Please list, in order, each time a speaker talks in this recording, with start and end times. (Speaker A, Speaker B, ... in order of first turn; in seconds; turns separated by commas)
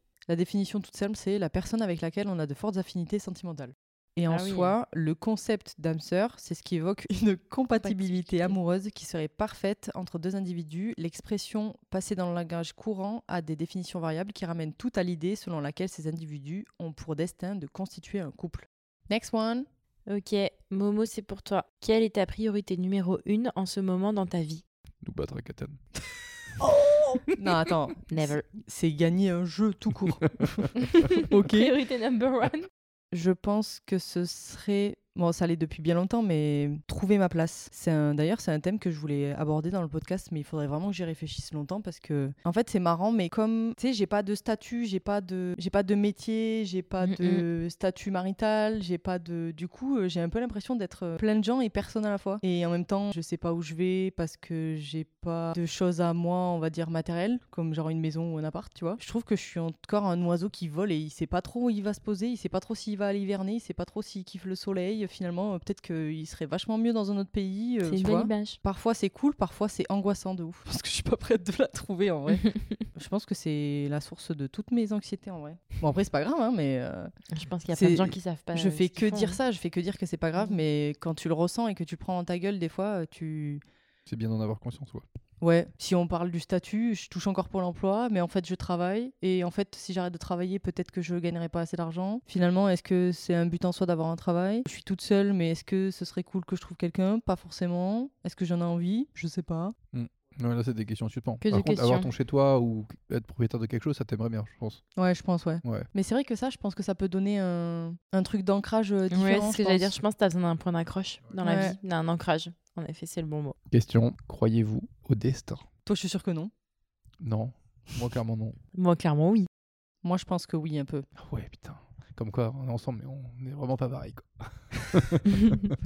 Speaker A: 0.3-19.7, Speaker B: 4.3-4.8, Speaker B: 7.8-8.6, Speaker B: 20.1-24.6, Speaker C: 25.0-25.8, Speaker B: 26.8-27.2, Speaker A: 27.3-31.7, Speaker B: 28.1-28.4, Speaker B: 30.8-32.7, Speaker A: 33.1-77.1, Speaker B: 47.0-47.4, Speaker B: 67.8-68.6, Speaker B: 77.3-79.4, Speaker A: 77.7-83.6, Speaker C: 84.1-85.0, Speaker A: 85.4-99.7, Speaker C: 99.9-104.8, Speaker B: 101.4-102.1, Speaker A: 105.0-110.0, Speaker B: 109.1-113.6, Speaker A: 111.4-111.8, Speaker C: 113.7-115.7, Speaker A: 115.9-116.5, Speaker C: 117.2-118.6, Speaker B: 118.8-119.5, Speaker A: 120.0-121.1, Speaker C: 121.2-125.6